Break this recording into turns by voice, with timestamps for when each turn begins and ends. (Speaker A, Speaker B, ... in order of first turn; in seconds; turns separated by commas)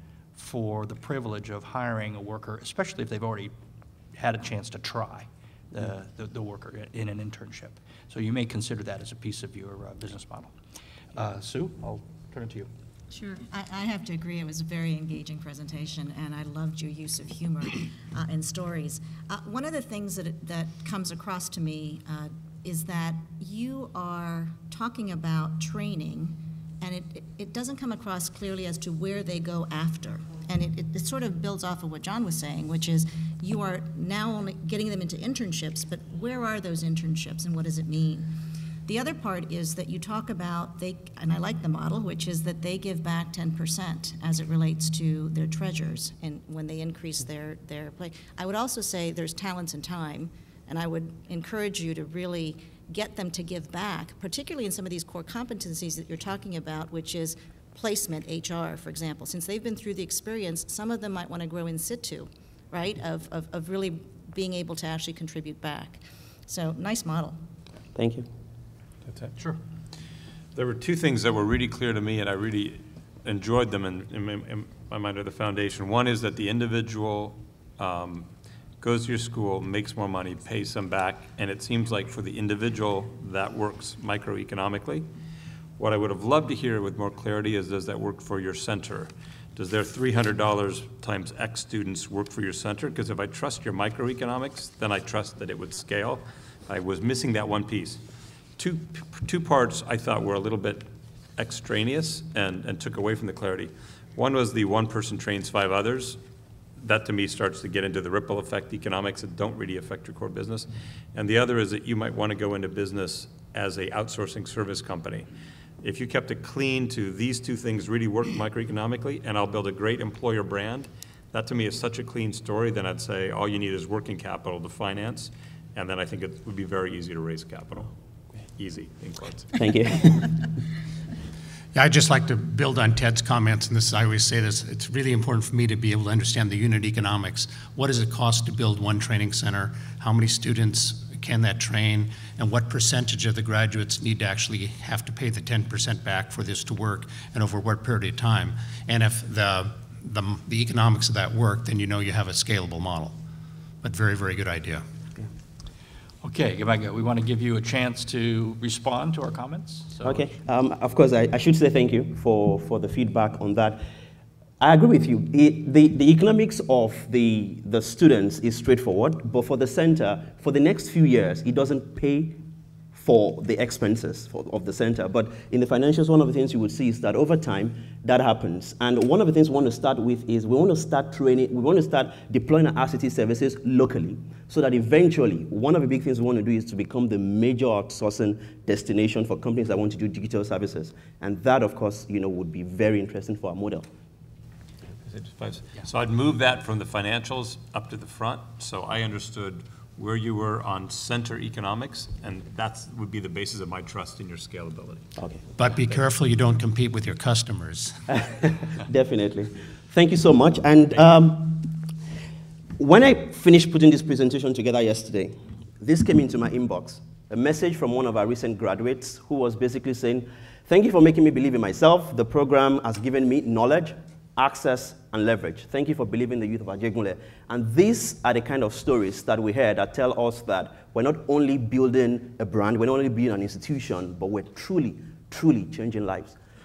Speaker A: 0.4-3.5, Speaker A: 4.2-10.5, Speaker A: 11.2-12.7, Speaker B: 13.1-38.3, Speaker B: 38.9-67.4, Speaker C: 68.0-68.3, Speaker D: 70.5-78.3, Speaker D: 78.8-85.1, Speaker D: 85.8-98.0, Speaker D: 98.6-100.8, Speaker D: 101.4-106.2, Speaker D: 106.8-115.3, Speaker D: 115.8-127.9, Speaker D: 128.6-129.7, Speaker C: 129.6-130.3, Speaker E: 131.7-153.1, Speaker E: 153.8-154.8, Speaker A: 156.2-160.3, Speaker C: 160.0-163.8, Speaker C: 164.6-172.4, Speaker C: 172.9-193.9, Speaker D: 195.1-205.0, Speaker E: 205.6-207.9, Speaker C: 208.2-211.7, Speaker C: 212.8-236.4